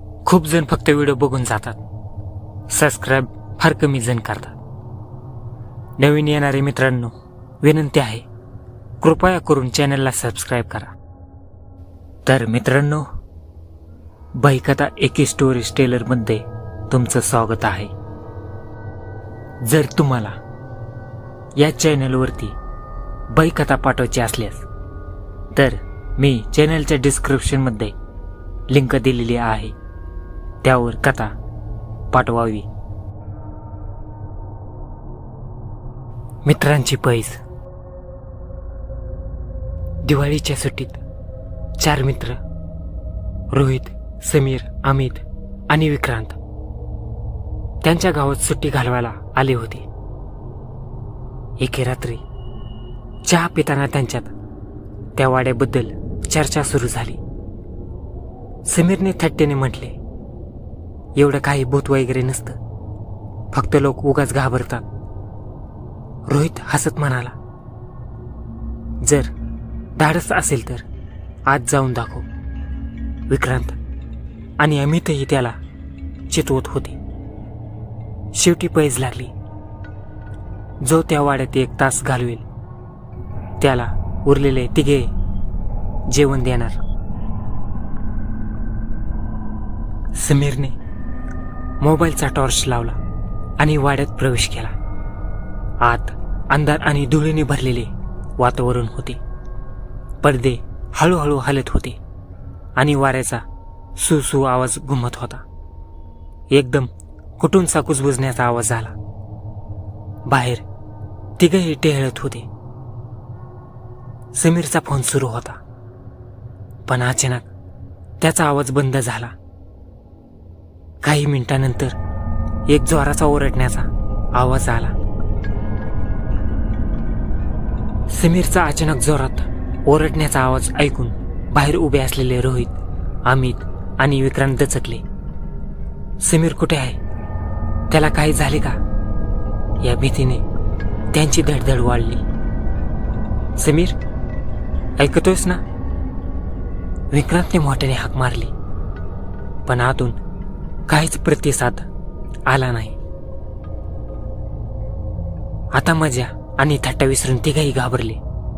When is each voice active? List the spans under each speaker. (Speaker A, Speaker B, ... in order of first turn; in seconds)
Speaker A: 0.2-1.8, 2.7-4.6, 6.0-8.2, 9.0-10.9, 12.2-13.1, 14.3-17.9, 19.6-20.4, 21.6-22.6, 23.3-24.7, 25.5-27.9, 28.7-29.7, 30.6-31.3, 32.1-32.7, 36.4-37.4, 40.0-41.0, 41.8-42.4, 43.5-46.4, 47.8-49.9, 51.6-52.2, 53.2-54.3, 55.1-57.2, 58.6-60.0, 61.1-62.6, 63.5-64.8, 66.3-67.3, 69.0-69.3, 70.0-70.8, 71.5-72.3, 73.3-73.8, 74.6-75.6, 76.3-77.0, 78.3-79.3, 80.8-82.4, 83.6-85.1, 86.1-86.8, 90.1-90.8, 91.8-93.0, 93.6-94.7, 95.8-99.2, 100.2-102.0, 102.8-103.4, 104.0-105.4, 106.5-108.9, 110.3-110.6, 111.4-112.5, 114.3-115.6, 116.9-117.5, 118.2-119.3, 121.0-122.0, 122.7-124.9, 128.1-132.7, 133.2-135.0, 136.2-137.0, 137.9-138.8, 139.8-140.4, 141.1-142.2, 143.6-144.0, 145.0-145.6, 147.1-148.5, 149.7-150.2, 150.9-151.9, 152.5-153.0, 155.7-158.2